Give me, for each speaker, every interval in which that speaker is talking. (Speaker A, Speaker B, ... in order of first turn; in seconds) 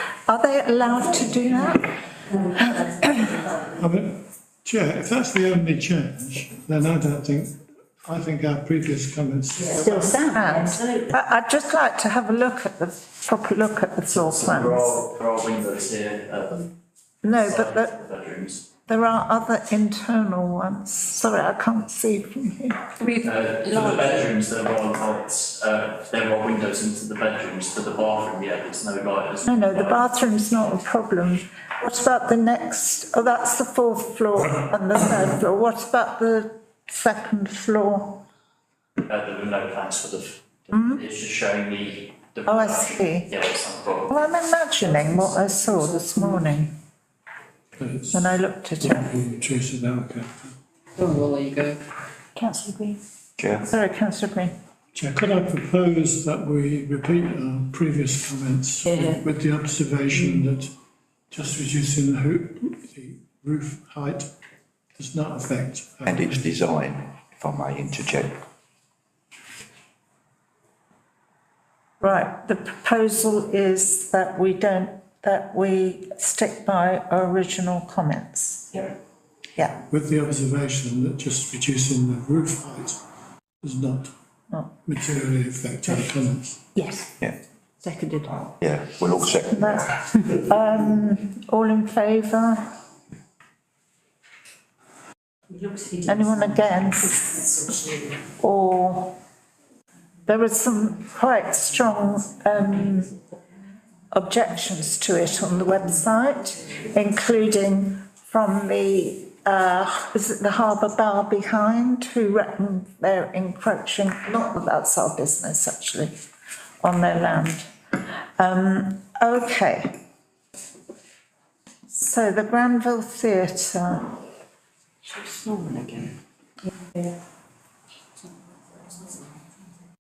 Speaker A: 0.3-1.9, 2.5-3.2, 9.8-14.9, 17.2-18.0, 18.9-22.9, 29.4-38.2, 40.7-41.0, 42.5-43.3, 44.1-46.7, 48.1-49.1, 53.7-54.5, 72.0-78.9, 79.5-79.8, 86.7-87.1, 89.5-92.7, 96.0-97.7, 98.4-99.2, 100.2-103.2, 104.1-116.1, 116.8-117.7, 118.4-120.0, 121.9-124.2
Speaker B: 3.5-9.9, 47.8-50.5, 54.9-60.7, 61.3-64.3, 65.0-66.5, 79.9-83.0, 83.6-84.1, 84.9-86.6
Speaker C: 9.7-10.8, 52.3-53.0, 58.9-59.2
Speaker D: 14.1-16.7, 17.3-18.6, 23.2-30.0, 39.0-44.1
Speaker E: 51.0-51.8, 125.1-126.1
Speaker F: 53.4-53.7, 66.0-68.3, 88.3-89.7